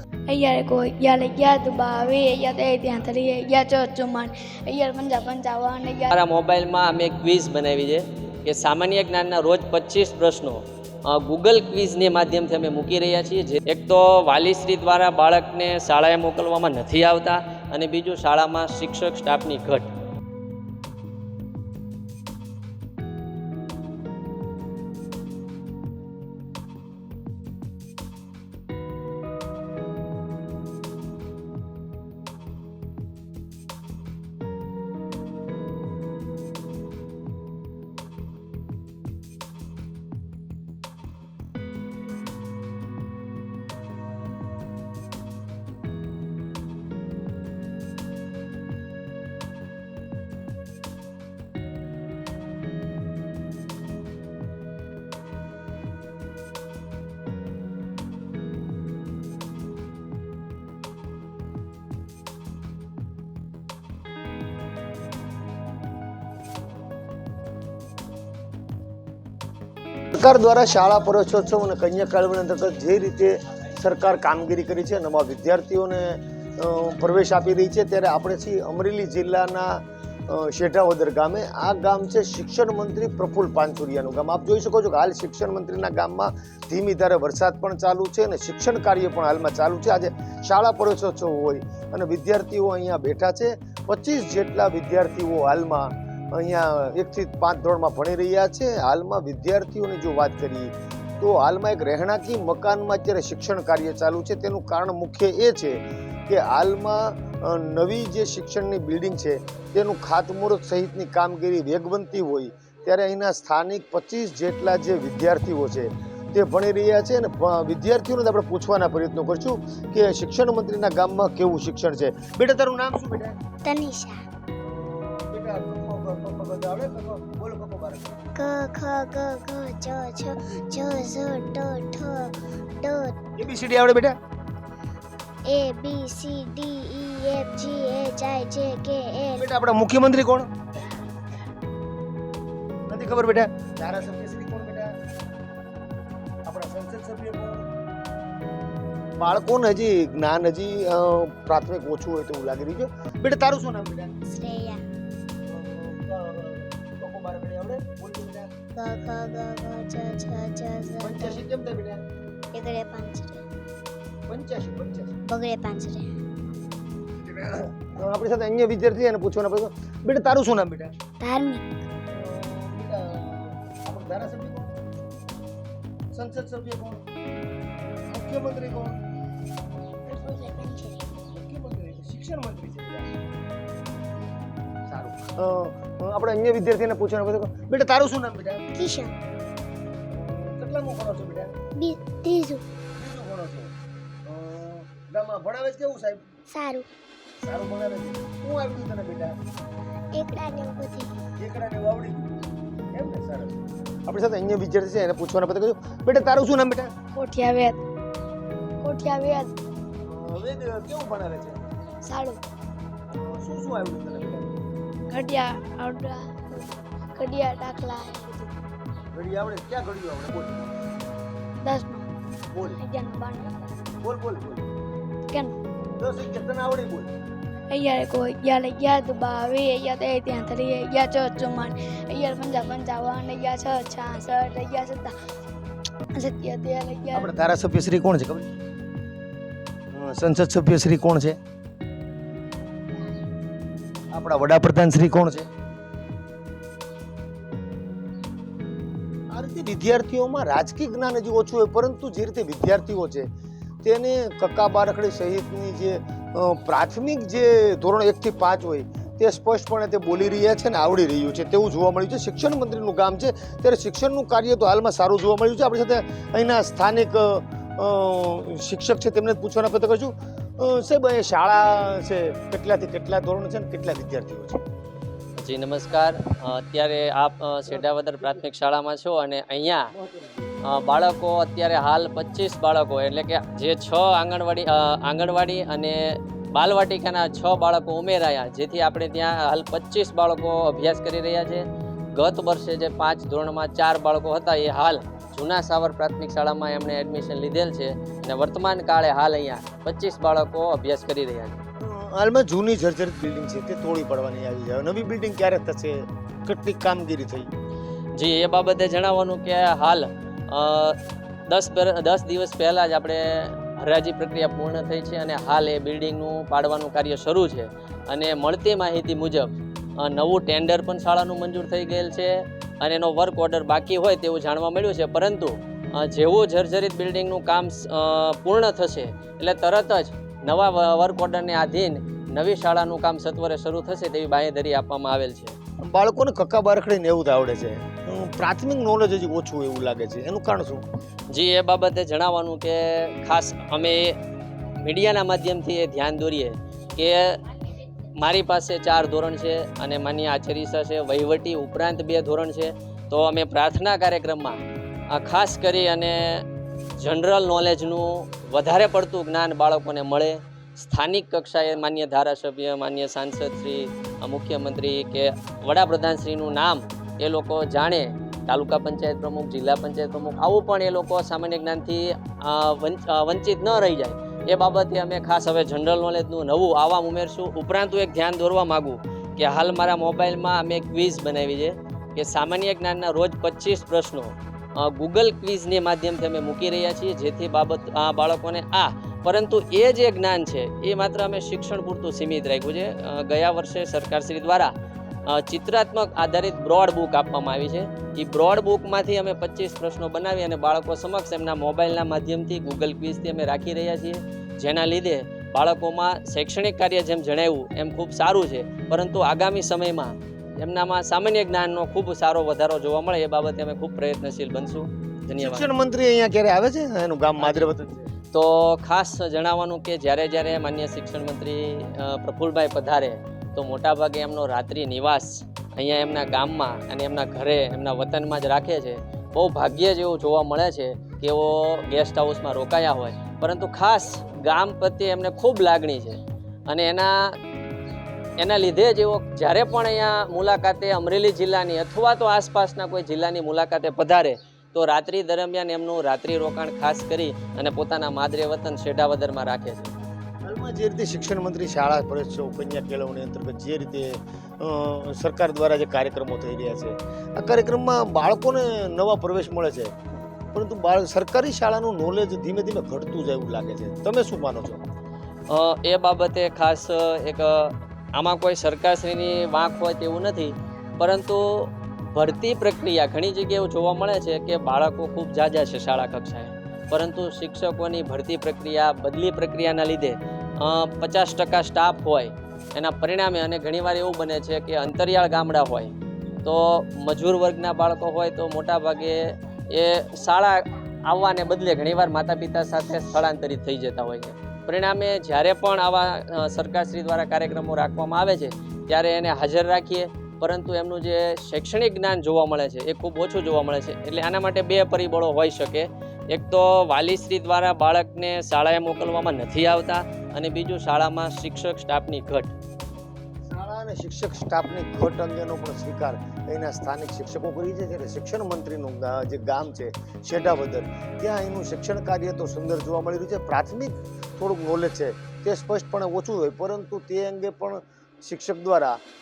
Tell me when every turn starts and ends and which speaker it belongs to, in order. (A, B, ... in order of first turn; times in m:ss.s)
0:00.3-0:06.1 A
0:06.1-0:19.9 B
1:10.1-2:03.4 C
2:03.6-2:04.2 D
2:04.6-2:08.2 C
2:08.4-2:13.2 D
2:13.4-2:14.2 C
2:15.5-2:19.5 D
2:19.4-2:20.5 C
2:22.9-2:24.9 C
2:26.4-2:27.6 C
2:29.2-2:34.2 C
2:34.3-2:34.8 D
2:35.5-2:38.5 C
2:38.8-2:41.4 D
2:40.8-2:42.0 C
2:42.5-2:43.4 D
2:44.3-2:45.2 C
2:45.3-2:46.1 D
2:47.3-2:51.0 C
2:51.2-2:51.7 D
2:52.1-2:54.7 C
2:56.1-2:57.0 C
2:58.1-2:59.0 C
3:00.1-3:01.0 D
3:01.3-3:03.1 C
3:04.9-3:08.7 C
3:08.7-3:09.1 D
3:10.1-3:11.5 C
3:11.8-3:12.6 D
3:13.0-3:13.7 C
3:14.3-3:16.2 C
3:16.5-3:16.9 D
3:17.4-3:19.3 C
3:20.2-3:21.1 D
3:21.4-3:22.4 C
3:22.9-3:26.9 C
3:27.2-3:27.8 A
3:28.8-3:29.5 A
3:30.0-3:31.6 C
3:32.0-3:32.4 A
3:33.1-3:34.5 C
3:35.1-3:38.6 A
3:39.1-3:40.7 C
3:41.6-3:42.1 A
3:42.5-3:42.8 C
3:42.8-3:43.5 A
3:44.0-3:44.7 C
3:45.3-3:45.6 A
3:46.0-3:47.1 C
3:47.7-3:55.2 A
3:56.2-3:57.3 A
3:57.1-3:58.5 C
3:59.9-4:01.4 C
4:04.1-4:05.5 C
4:09.3-4:13.3 C
4:13.8-4:34.6 C
4:35.4-4:39.9 B
4:37.7-4:38.4 C
4:39.9-4:40.5 C
4:40.7-4:51.6 B
4:52.2-5:01.6 B
5:01.8-5:07.5 C
5:08.2-5:11.0 B
5:11.5-5:35.6 B
5:35.8-5:40.8 C
5:41.3-5:44.2 B
5:44.8-5:47.4 B
5:48.2-5:54.6 B
5:55.1-5:56.4 B
5:57.0-6:34.7 B
6:35.3-6:55.7 B
6:55.4-6:58.1 C
6:57.4-6:57.7 B
6:58.3-7:17.3 B
7:18.4-7:29.9 B
7:30.4-7:39.9 C
7:40.5-7:44.8 C
7:45.5-8:32.5 B
8:33.5-8:49.0 C